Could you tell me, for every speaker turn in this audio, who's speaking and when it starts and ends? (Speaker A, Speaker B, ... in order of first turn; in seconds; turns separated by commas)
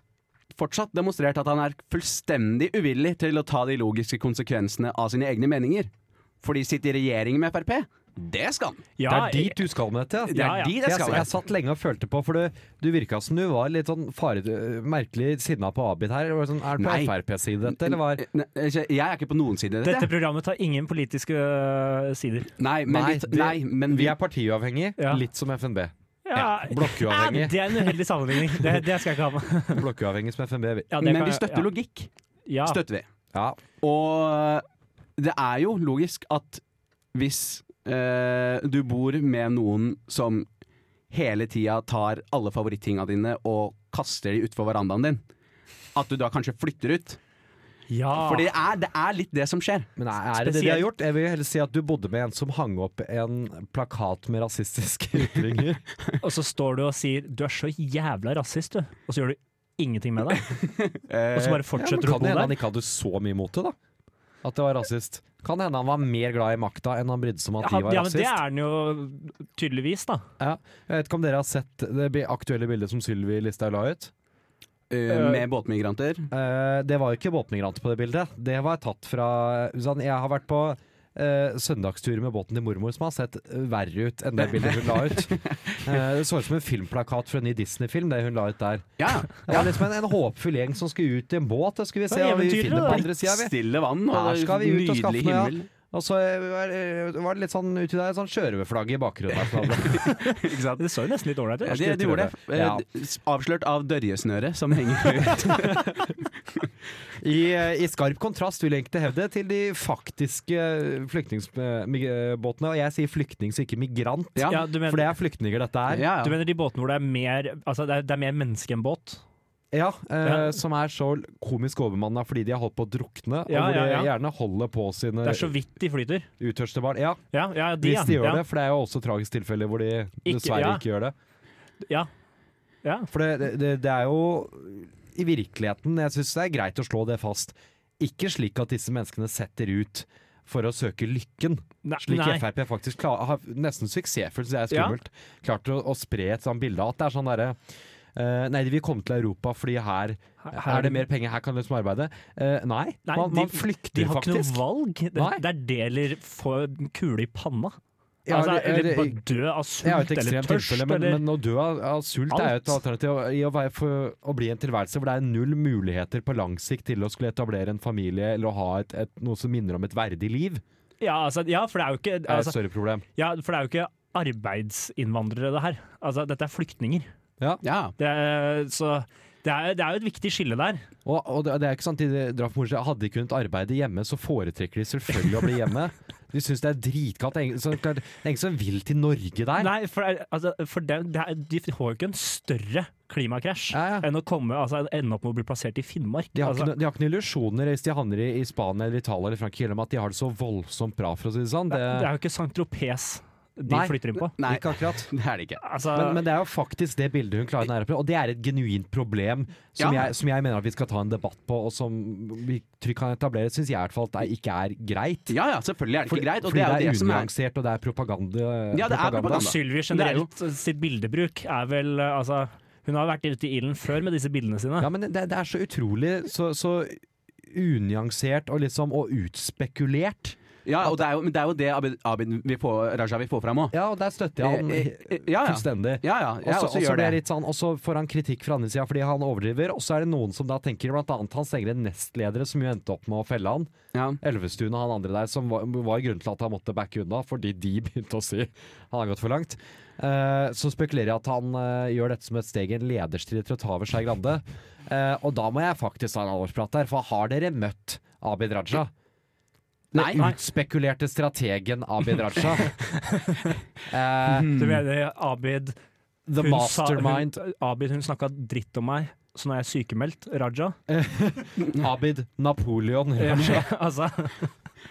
Speaker A: 0.5-5.9, Speaker A: 6.4-8.9, Speaker B: 9.0-9.6, Speaker C: 9.1-18.2, Speaker B: 10.3-10.8, Speaker A: 10.3-11.3, Speaker A: 16.8-17.1, Speaker A: 17.7-20.1, Speaker B: 19.8-22.5, Speaker A: 22.6-24.2, Speaker C: 22.9-27.8, Speaker B: 25.0-25.2, Speaker B: 26.3-29.8, Speaker C: 29.7-30.9, Speaker B: 30.9-31.7, Speaker A: 31.0-32.1, Speaker B: 32.5-32.8, Speaker A: 32.7-33.0, Speaker C: 33.3-33.6, Speaker A: 33.8-34.6, Speaker A: 35.2-36.6, Speaker A: 37.1-40.5, Speaker A: 41.1-45.2, Speaker A: 46.0-47.2, Speaker B: 47.9-48.5, Speaker A: 48.2-49.9, Speaker C: 50.0-55.8, Speaker B: 50.4-50.9, Speaker B: 56.2-60.5, Speaker A: 60.9-61.6, Speaker B: 61.3-62.6, Speaker C: 61.8-63.8, Speaker C: 64.4-68.4, Speaker B: 67.6-70.2, Speaker C: 70.4-74.1, Speaker A: 74.9-76.3, Speaker B: 75.1-75.4, Speaker C: 76.3-93.5, Speaker A: 84.5-85.8, Speaker A: 89.0-89.7, Speaker B: 92.1-93.0, Speaker A: 93.0-95.7, Speaker C: 94.1-100.0, Speaker A: 99.7-100.9, Speaker B: 100.0-102.3, Speaker A: 101.7-105.8, Speaker C: 102.5-102.8, Speaker C: 105.8-106.1, Speaker C: 107.2-116.1, Speaker A: 114.4-114.6, Speaker B: 114.5-115.1, Speaker A: 115.9-116.4, Speaker B: 116.1-119.2, Speaker C: 119.7-125.6, Speaker B: 120.2-120.6, Speaker B: 123.5-124.1, Speaker B: 125.2-126.3, Speaker C: 126.4-127.2, Speaker B: 127.3-128.4, Speaker C: 127.8-131.2, Speaker B: 130.2-130.8, Speaker B: 132.8-133.1, Speaker C: 133.1-147.6, Speaker B: 141.8-142.4, Speaker B: 144.7-145.0, Speaker C: 148.2-154.6, Speaker B: 150.4-151.0, Speaker B: 153.1-157.8, Speaker C: 155.2-155.4, Speaker C: 158.3-159.2, Speaker B: 158.3-161.2, Speaker C: 159.8-170.6, Speaker B: 162.3-162.8, Speaker B: 171.0-172.6, Speaker C: 172.3-173.1, Speaker B: 173.2-177.1, Speaker A: 177.6-177.9, Speaker B: 178.0-180.8, Speaker C: 181.1-189.7, Speaker B: 189.6-196.7, Speaker C: 193.7-194.1, Speaker C: 196.3-202.1, Speaker B: 201.7-204.3, Speaker C: 203.7-205.1, Speaker A: 204.4-205.6, Speaker B: 205.6-206.2, Speaker C: 205.9-215.3, Speaker A: 209.8-210.1, Speaker A: 215.3-217.3, Speaker C: 216.1-219.5, Speaker A: 218.7-220.3, Speaker B: 219.3-224.9, Speaker C: 224.8-231.0, Speaker A: 230.7-233.8, Speaker C: 233.7-258.9, Speaker A: 234.4-237.2, Speaker A: 243.9-244.2, Speaker A: 259.9-260.2, Speaker C: 259.9-262.8, Speaker B: 263.1-263.4, Speaker C: 263.9-264.5, Speaker A: 264.3-264.8, Speaker B: 264.5-265.8, Speaker C: 266.3-267.4, Speaker B: 266.4-270.8, Speaker C: 270.9-273.7, Speaker B: 273.2-274.5